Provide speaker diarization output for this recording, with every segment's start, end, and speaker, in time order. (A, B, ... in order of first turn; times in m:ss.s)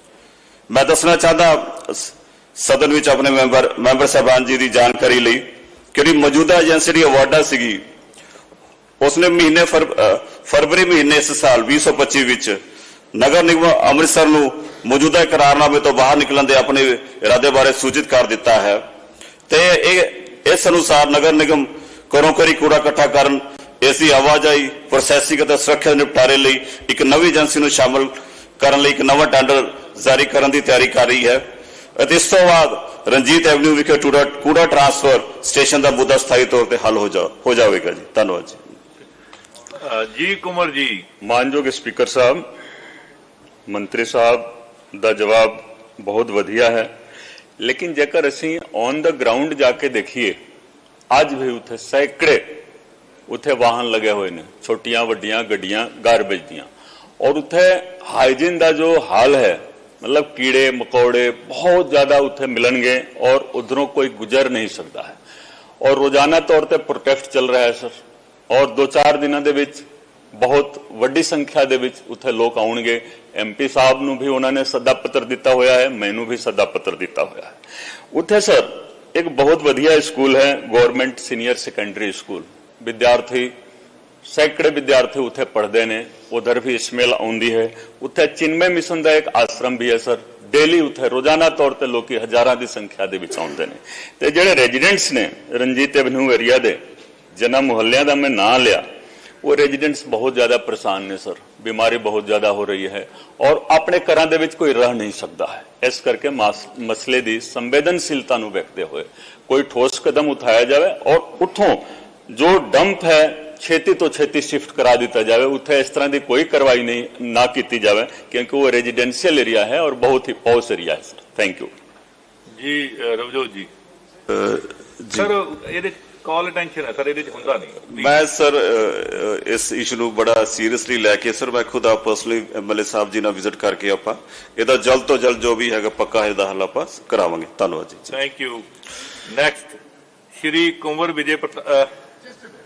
0:00.7-0:07.8 A
0:09.0-0:12.6 A
0:13.2-0:18.8 A
0:19.5-0:31.5 A
0:32.0-0:38.6 A
0:39.8-0:41.0 B
0:41.2-0:42.4 C
0:43.7-0:46.9 C
0:47.6-0:50.4 C
0:51.1-0:52.6 C
0:53.3-0:56.7 C
0:57.2-1:05.2 C
1:05.8-1:07.9 C
1:08.5-1:09.8 C
1:10.4-1:17.5 C
1:18.1-1:23.5 C
1:24.3-1:36.8 C
1:37.4-1:38.8 C
1:39.4-2:01.7 C
2:02.6-2:03.7 B
2:04.3-2:05.3 A
2:05.1-2:08.1 B
2:07.9-2:18.1 A
2:18.1-2:18.7 B
2:19.3-2:19.8 B
2:20.4-2:21.9 B